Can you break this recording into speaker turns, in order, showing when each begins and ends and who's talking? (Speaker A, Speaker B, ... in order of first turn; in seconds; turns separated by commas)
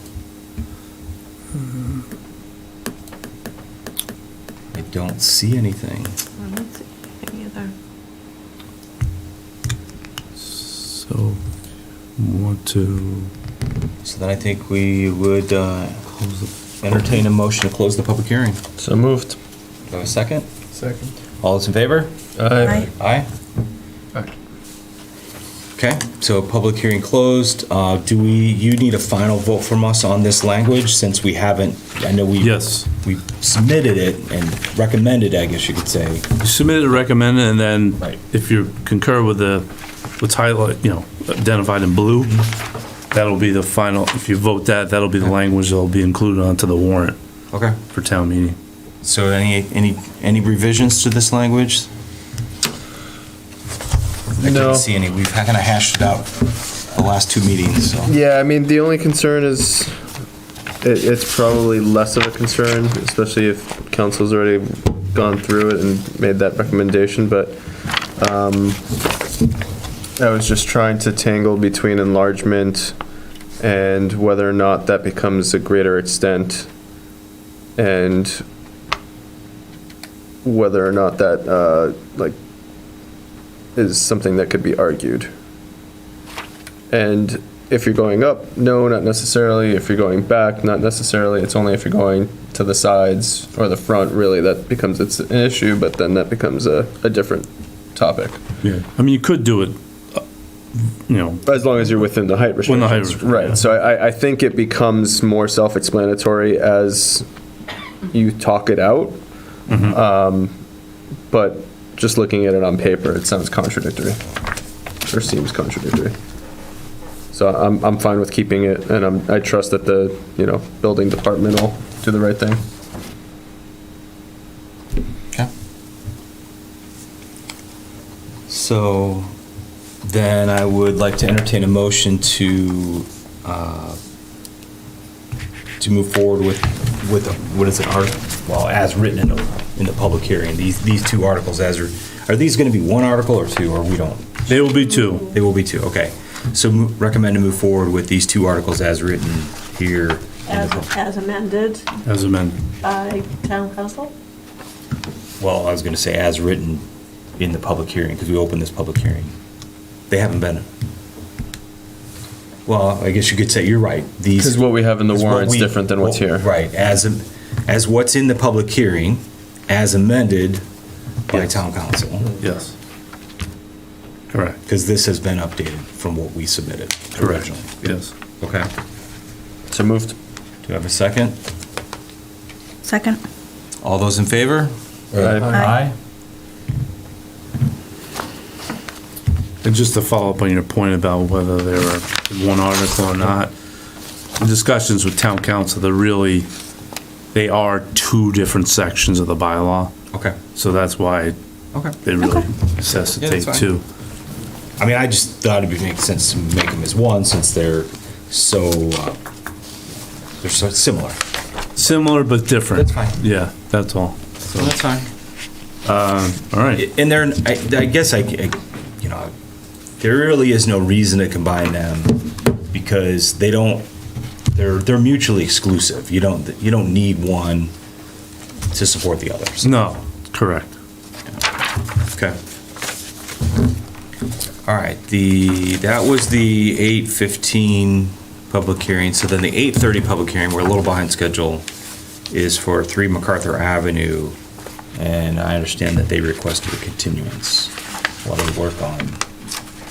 Speaker A: 1.5-2.0, Speaker B: 4.7-6.2, Speaker C: 6.4-7.7, Speaker A: 10.4-11.4, Speaker A: 12.2-13.3, Speaker B: 14.0-16.0, Speaker A: 16.1-16.5, Speaker B: 16.8-18.6, Speaker D: 18.8-19.4, Speaker B: 19.9-20.5, Speaker B: 21.4-22.1, Speaker D: 22.4-22.9, Speaker C: 22.6-22.9, Speaker B: 22.9-23.3, Speaker B: 25.8-36.2, Speaker A: 32.4-32.9, Speaker A: 36.4-39.7, Speaker A: 40.2-42.5, Speaker A: 43.1-47.2, Speaker B: 47.5-47.8, Speaker A: 47.9-48.6, Speaker B: 49.0-51.9, Speaker D: 54.4-54.9, Speaker B: 54.4-58.1, Speaker D: 58.0-59.9, Speaker D: 60.8-67.6, Speaker D: 68.2-68.8, Speaker D: 70.2-73.0, Speaker D: 73.6-76.7, Speaker D: 77.8-78.4, Speaker D: 80.4-82.3, Speaker D: 83.7-85.3, Speaker D: 86.9-98.4, Speaker A: 98.6-100.2, Speaker A: 100.7-101.4, Speaker D: 101.5-107.2, Speaker A: 102.7-103.6, Speaker D: 108.1-109.2, Speaker A: 109.7-110.0, Speaker D: 109.8-110.5, Speaker D: 111.3-114.2, Speaker D: 115.0-116.1, Speaker D: 117.3-122.6, Speaker B: 128.5-129.3, Speaker B: 130.0-134.0, Speaker B: 135.8-144.6, Speaker A: 144.4-145.3, Speaker B: 145.2-150.9, Speaker C: 150.5-151.9, Speaker A: 152.0-152.6, Speaker C: 152.8-154.1, Speaker B: 155.4-156.8, Speaker B: 157.4-159.3, Speaker B: 160.1-160.7, Speaker B: 162.7-170.6, Speaker D: 164.4-166.4, Speaker D: 171.3-171.6, Speaker B: 171.3-172.3, Speaker A: 172.4-172.7, Speaker A: 174.3-174.6, Speaker B: 174.7-178.7, Speaker A: 177.2-178.1, Speaker D: 179.7-180.2, Speaker B: 180.6-181.4, Speaker C: 182.8-183.2, Speaker B: 183.8-185.9, Speaker D: 185.1-185.7, Speaker C: 185.5-185.8, Speaker A: 189.6-193.5, Speaker A: 194.4-196.5, Speaker A: 197.3-199.9, Speaker B: 200.1-200.4, Speaker A: 200.5-201.3, Speaker B: 201.7-202.0, Speaker A: 202.0-203.8, Speaker B: 202.8-203.7, Speaker B: 204.8-209.2, Speaker B: 210.4-211.2, Speaker A: 211.8-214.7, Speaker B: 212.7-213.2, Speaker B: 214.5-215.1, Speaker A: 215.8-216.9, Speaker B: 216.7-219.3, Speaker B: 220.0-223.9, Speaker B: 224.5-227.7, Speaker B: 228.7-229.7, Speaker A: 229.6-230.8, Speaker B: 234.6-241.7, Speaker B: 242.3-244.4, Speaker B: 244.9-249.2